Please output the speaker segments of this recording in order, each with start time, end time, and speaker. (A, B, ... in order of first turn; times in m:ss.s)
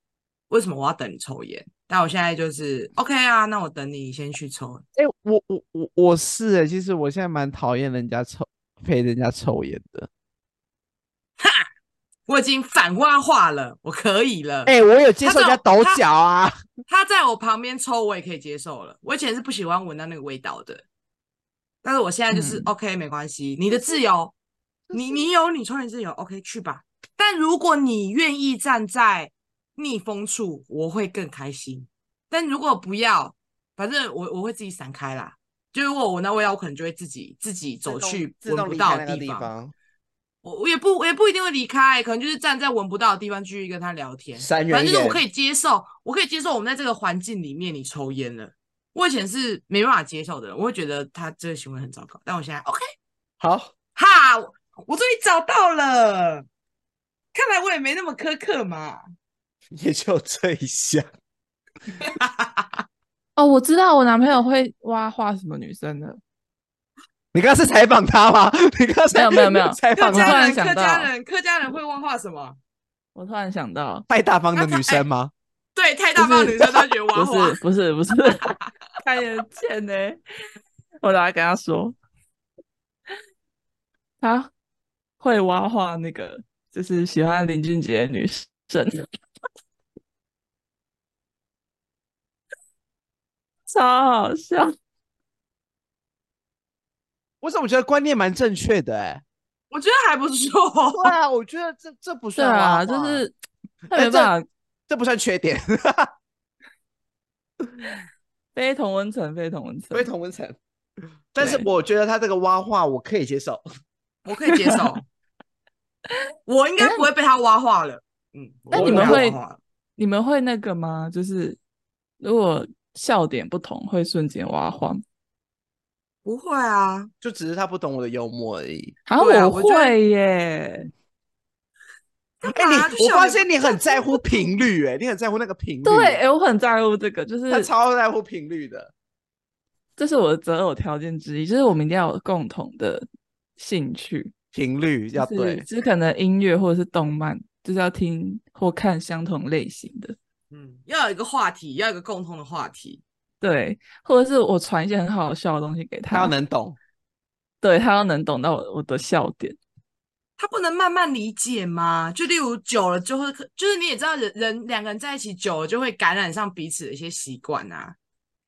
0:00.5-0:04.8 A
0:04.9-0:10.1 B
0:11.4-0:11.6 A
0:12.3-0:16.0 A
0:14.6-0:16.6 B
0:16.9-0:20.8 A
0:21.8-0:24.3 A
0:22.3-0:22.7 C
0:24.9-0:25.2 C
0:24.9-0:39.5 A
0:37.8-0:39.7 B
0:40.4-0:52.8 A
0:44.4-0:45.2 B
0:53.4-0:53.7 B
0:54.0-0:56.4 A
0:57.3-0:59.0 A
0:59.7-1:01.1 B
1:02.0-1:02.8 A
1:03.4-1:06.2 C
1:07.3-1:10.4 B
1:09.1-1:11.1 C
1:10.0-1:12.6 A
1:13.1-1:14.0 C
1:14.1-1:15.3 B
1:14.5-1:15.0 A
1:15.7-1:17.6 A
1:16.2-1:20.2 C
1:18.4-1:18.7 A
1:21.0-1:22.0 C
1:24.2-1:24.5 C
1:25.2-1:29.0 C
1:33.7-1:34.7 C
1:37.4-1:39.2 B
1:39.7-1:41.2 A
1:40.9-1:43.2 B
1:42.4-1:43.3 C
1:43.9-1:44.3 B
1:43.9-1:44.5 C
1:44.9-1:46.1 B
1:48.5-1:50.1 C
1:49.9-1:50.6 B
1:51.3-1:53.6 B
1:51.4-1:51.7 C
1:54.2-1:55.0 A
1:54.6-1:54.8 C
1:56.5-1:59.6 A
1:56.8-1:57.1 C
1:58.7-1:59.2 B
1:58.7-1:59.4 C
2:00.0-2:01.6 C
2:02.2-2:05.0 C
2:06.2-2:07.1 A
2:07.2-2:09.0 B
2:09.1-2:10.9 C
2:09.2-2:10.0 A
2:12.4-2:14.4 A
2:12.4-2:16.2 B
2:15.8-2:17.7 C
2:17.5-2:18.9 B
2:20.0-2:23.0 C
2:23.6-2:24.3 C
2:24.5-2:25.6 B
2:25.1-2:30.2 C
2:30.5-2:33.0 A
2:33.4-2:36.3 C
2:36.1-2:36.8 B
2:37.6-2:39.6 C
2:40.4-2:48.0 A